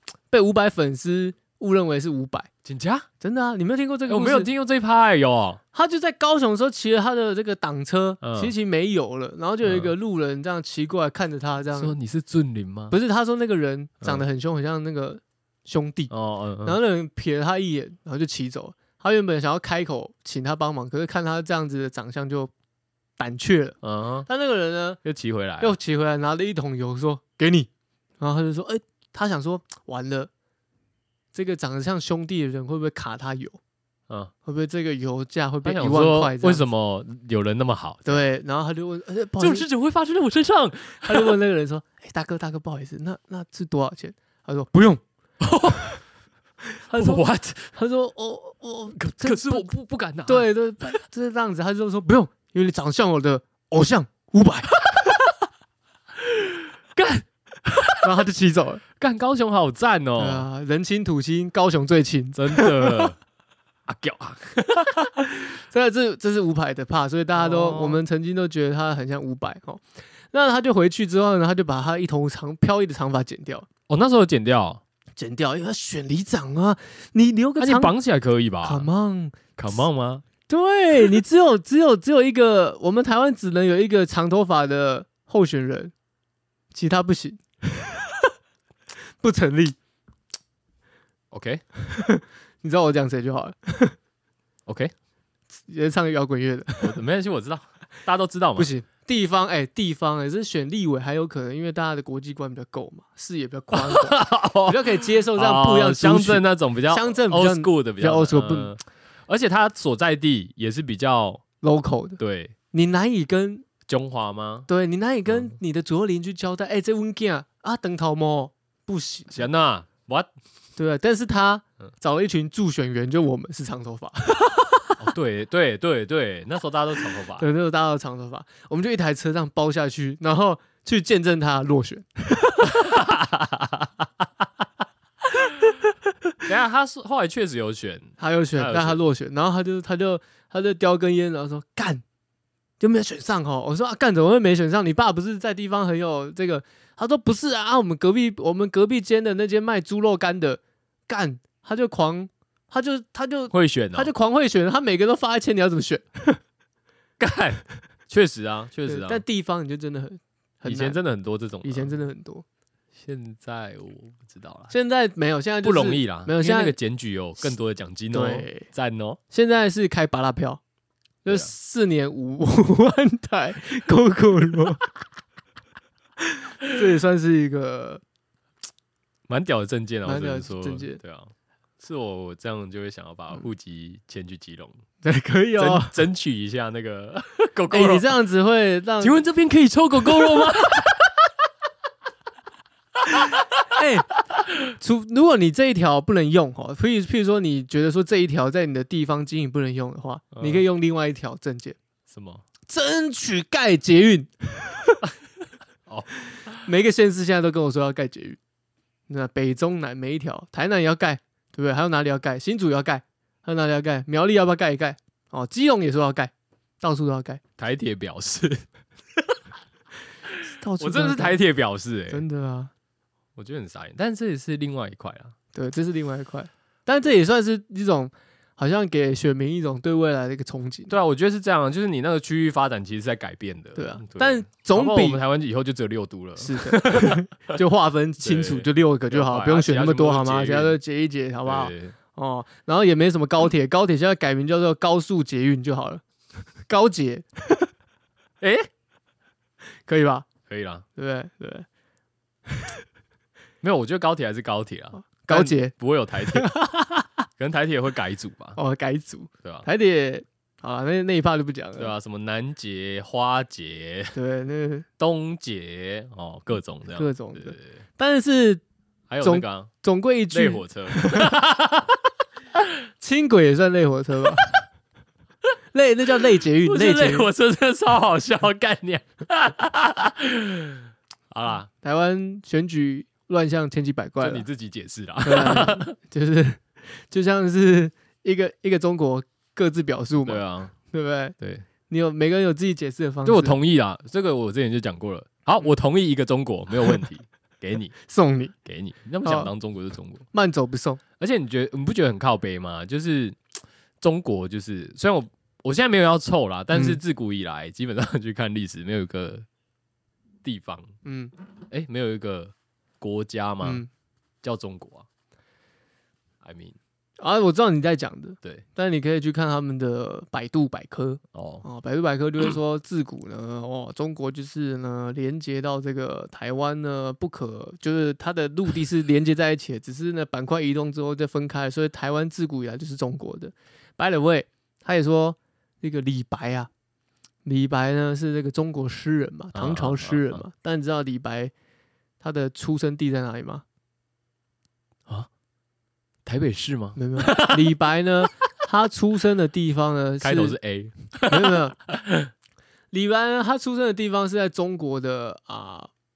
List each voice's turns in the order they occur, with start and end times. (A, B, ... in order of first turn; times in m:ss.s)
0:00.3-0:02.5 A
0:02.6-0:03.1 B
0:03.2-0:04.5 A
0:04.1-0:05.6 B
0:05.7-0:11.9 A
0:08.2-0:08.5 B
0:09.6-0:09.9 B
0:11.7-0:13.0 B
0:12.9-0:16.1 A
0:16.1-0:16.8 B
0:16.6-0:22.5 A
0:23.2-0:25.0 A
0:23.8-0:24.3 B
0:25.0-0:25.7 B
0:25.6-0:27.7 A
0:28.2-0:30.3 A
0:31.3-0:33.6 A
0:34.4-0:36.6 A
0:35.6-0:38.2 B
0:38.0-0:39.7 A
0:39.4-0:41.3 B
0:41.0-0:45.0 A
0:45.4-0:46.0 B
0:46.8-0:47.2 A
0:46.9-0:47.7 B
0:47.7-0:49.7 A
0:49.0-0:51.0 B
0:50.2-0:54.7 A
0:54.8-0:55.1 B
0:56.2-0:58.1 B
0:58.0-0:58.8 A
0:59.0-1:00.5 B
1:00.2-1:03.1 A
1:02.4-1:03.2 B
1:03.9-1:05.1 B
1:05.6-1:13.7 A
1:07.3-1:08.0 B
1:13.9-1:14.8 B
1:15.2-1:17.9 A
1:17.6-1:18.9 B
1:18.6-1:19.5 A
1:19.6-1:20.2 B
1:20.5-1:25.9 A
1:26.7-1:28.2 A
1:29.2-1:29.8 A
1:31.3-1:31.6 B
1:31.8-1:34.0 A
1:34.7-1:34.9 B
1:35.7-1:36.9 A
1:36.8-1:38.7 B
1:38.6-1:48.7 A
1:43.7-1:51.4 B
1:51.6-1:52.2 A
1:52.2-1:52.5 B
1:52.7-1:53.7 A
1:53.9-1:54.7 B
1:54.7-1:59.4 A
1:59.3-2:00.3 B
2:00.8-2:05.0 A
2:05.0-2:07.5 B
2:07.1-2:12.8 A
2:12.6-2:13.9 B
2:16.4-2:19.0 B
2:18.2-2:22.0 A
2:22.8-2:36.4 A
2:33.5-2:34.1 B
2:37.2-2:39.2 B
2:38.9-2:41.0 A
2:40.6-2:42.0 B
2:41.6-2:42.4 A
2:43.0-2:44.7 B
2:44.7-2:46.8 A
2:45.6-2:49.2 B
2:48.1-2:48.6 A
2:49.3-2:50.6 A
2:51.2-2:54.8 A
2:56.2-2:58.0 A
2:59.3-3:04.8 B
3:00.0-3:01.0 A
3:05.0-3:05.9 A
3:05.6-3:08.1 B
3:07.7-3:09.2 A
3:09.0-3:11.1 B
3:10.0-3:10.6 A
3:13.7-3:14.1 A
3:14.8-3:21.8 A
3:20.3-3:20.6 B
3:22.1-3:22.4 B
3:22.7-3:25.0 A
3:25.9-3:26.6 B
3:26.6-3:28.4 A
3:29.1-3:37.4 A
3:37.6-3:38.6 B
3:40.3-3:42.2 B
3:40.4-3:41.4 A
3:42.1-3:42.7 A
3:43.4-3:45.3 B
3:45.5-3:50.9 A
3:50.9-3:57.5 B
3:53.7-3:55.2 A
3:56.4-4:06.0 A
3:58.2-4:00.8 B
4:01.4-4:01.9 B
4:06.6-4:07.7 A
4:08.4-4:08.7 B
4:09.8-4:10.3 A
4:10.5-4:10.8 B
4:11.0-4:11.6 A
4:12.5-4:12.7 A
4:13.6-4:16.6 B
4:15.0-4:15.7 A
4:16.3-4:17.0 A
4:17.4-4:18.6 B
4:18.6-4:21.9 A
4:21.8-4:24.2 B
4:24.1-4:24.9 A
4:25.0-4:27.8 B
4:26.9-4:28.6 A
4:29.1-4:29.7 B
4:29.2-4:31.3 A
4:30.3-4:32.0 B
4:33.0-4:34.4 A
4:35.7-4:37.3 A
4:36.6-4:41.7 B
4:41.7-4:44.5 A
4:44.2-4:45.9 B
4:45.2-4:51.4 A
4:50.2-4:50.7 B
4:51.4-4:51.7 B
4:51.9-4:53.6 A
4:53.2-4:57.9 B
4:58.1-4:58.5 A
4:58.6-5:00.2 B
4:59.2-4:59.5 A
5:00.3-5:01.0 A
5:01.2-5:03.4 B
5:04.0-5:09.4 B
5:06.7-5:07.0 A
5:10.4-5:10.9 B
5:11.0-5:11.3 A
5:11.7-5:13.8 B
5:13.6-5:13.9 A
5:14.4-5:15.0 B
5:16.4-5:16.8 B
5:17.2-5:36.7 A
5:21.3-5:21.6 B
5:37.4-5:41.5 A
5:39.5-5:40.4 B
5:42.2-5:43.6 A
5:46.2-5:47.7 B
5:47.0-5:50.6 A
5:50.2-5:52.3 B
5:51.3-5:51.8 A
5:52.9-5:55.9 A